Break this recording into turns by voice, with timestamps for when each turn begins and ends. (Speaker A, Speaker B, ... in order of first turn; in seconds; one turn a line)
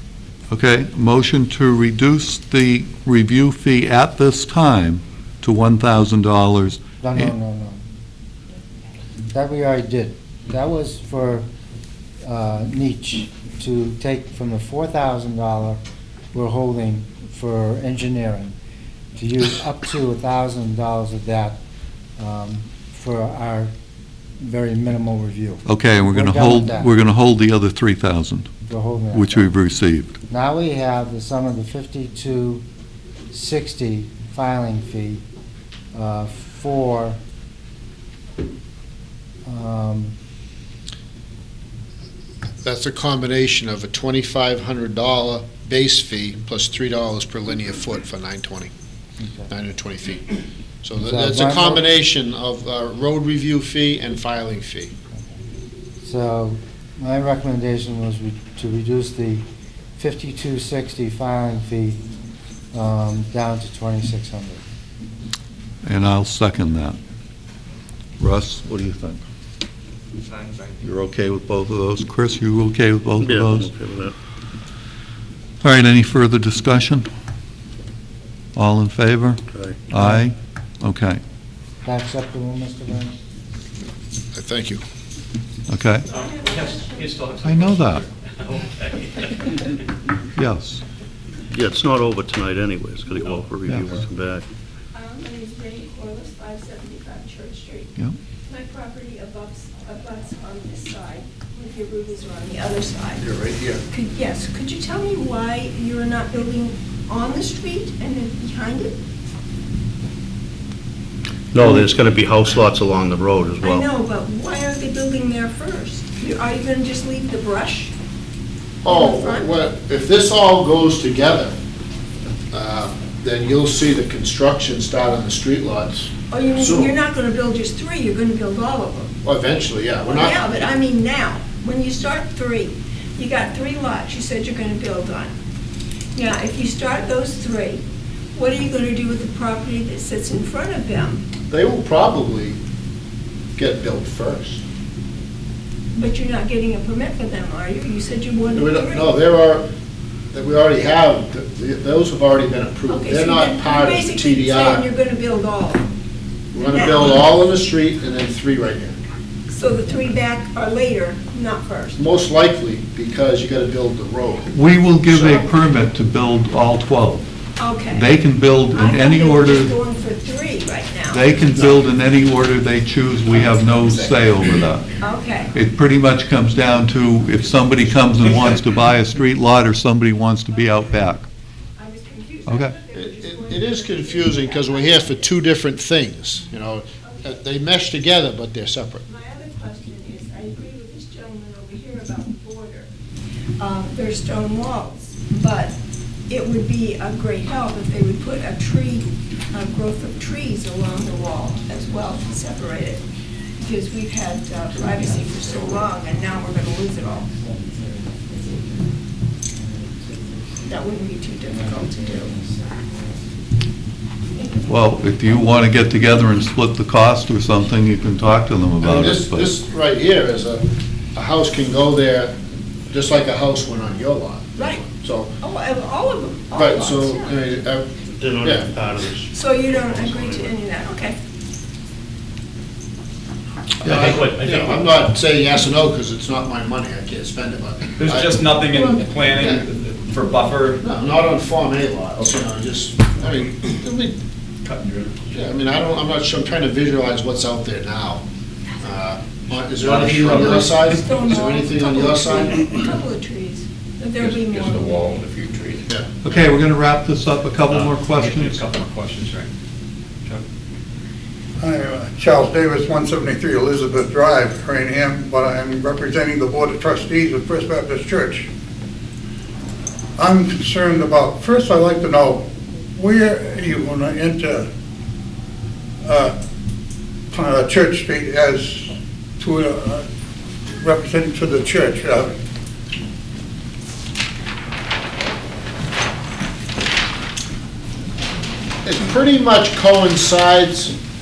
Speaker A: 0.5-7.3
Speaker B: 7.0-7.8
Speaker B: 9.3-11.4
Speaker B: 12.2-15.8
Speaker B: 16.3-18.5
Speaker B: 19.1-21.6
Speaker B: 22.2-23.7
Speaker B: 24.4-26.9
Speaker A: 25.6-28.5
Speaker B: 28.6-29.5
Speaker A: 29.1-30.2
Speaker B: 30.3-32.6
Speaker B: 33.3-35.2
Speaker B: 35.9-37.2
Speaker B: 39.4-40.1
Speaker C: 42.6-48.7
Speaker B: 49.2-49.5
Speaker C: 49.5-50.2
Speaker C: 50.8-54.9
Speaker B: 51.0-51.8
Speaker B: 56.0-59.5
Speaker B: 60.0-62.0
Speaker B: 62.7-64.6
Speaker A: 65.8-67.0
Speaker A: 68.2-69.2
Speaker A: 70.8-73.7
Speaker D: 73.2-74.1
Speaker A: 75.6-77.1
Speaker A: 78.5-81.2
Speaker D: 79.5-79.8
Speaker B: 80.0-80.2
Speaker B: 81.8-83.2
Speaker C: 84.3-84.8
Speaker A: 85.7-86.0
Speaker E: 86.1-87.4
Speaker F: 86.1-89.6
Speaker A: 87.4-88.0
Speaker A: 90.3-90.8
Speaker D: 91.5-94.5
Speaker E: 94.9-97.9
Speaker E: 98.5-103.2
Speaker C: 103.2-103.8
Speaker E: 103.9-108.9
Speaker D: 111.5-113.9
Speaker E: 113.6-117.9
Speaker C: 118.8-121.5
Speaker E: 118.8-119.5
Speaker C: 122.5-126.9
Speaker E: 126.3-129.1
Speaker C: 129.2-130.4
Speaker E: 130.1-135.3
Speaker E: 136.1-137.8
Speaker E: 138.3-141.2
Speaker C: 141.5-142.6
Speaker C: 143.6-144.6
Speaker E: 145.9-149.1
Speaker C: 148.5-149.7
Speaker C: 150.3-154.9
Speaker E: 152.9-155.9
Speaker C: 156.5-159.0
Speaker E: 156.7-157.2
Speaker E: 159.5-162.0
Speaker C: 162.0-164.5
Speaker A: 164.5-167.3
Speaker C: 165.1-165.5
Speaker E: 167.6-168.1
Speaker A: 167.8-169.7
Speaker E: 168.7-171.3
Speaker A: 171.1-174.9
Speaker E: 175.0-175.5
Speaker A: 175.5-181.3
Speaker E: 180.5-180.9
Speaker E: 181.8-185.3
Speaker A: 182.4-182.7
Speaker C: 182.9-189.0
Speaker E: 187.0-187.3
Speaker E: 189.0-192.9
Speaker E: 193.6-195.8
Speaker E: 196.3-203.0
Speaker E: 203.6-207.3
Speaker B: 204.7-209.0
Speaker B: 209.5-210.8
Speaker E: 210.7-212.3
Speaker B: 211.4-213.4
Speaker B: 214.4-214.6
Speaker A: 214.7-219.5
Speaker B: 215.3-215.6
Speaker C: 218.8-222.4
Speaker C: 222.9-225.3
Speaker E: 224.6-224.8
Speaker E: 225.4-227.4
Speaker C: 226.5-227.9
Speaker D: 228.1-230.6
Speaker C: 228.4-228.7
Speaker E: 229.3-231.2
Speaker F: 233.8-234.9
Speaker C: 233.8-238.5
Speaker F: 238.0-240.8
Speaker E: 238.7-239.2
Speaker C: 239.2-239.6
Speaker C: 240.8-244.2
Speaker C: 245.3-248.2
Speaker C: 248.8-252.8
Speaker F: 249.7-250.7
Speaker E: 250.3-255.2
Speaker G: 254.3-255.4
Speaker F: 255.4-255.8
Speaker A: 256.2-258.6
Speaker F: 257.7-259.5
Speaker H: 261.6-268.5
Speaker G: 261.7-265.6
Speaker G: 266.4-268.4
Speaker H: 270.2-272.4
Speaker G: 270.3-272.4
Speaker H: 273.0-274.6
Speaker G: 273.1-274.6
Speaker H: 276.1-276.3
Speaker H: 277.3-278.9
Speaker G: 277.5-278.9
Speaker H: 279.4-280.0
Speaker G: 279.6-279.9
Speaker H: 280.9-282.2
Speaker G: 281.2-282.3
Speaker C: 288.8-290.9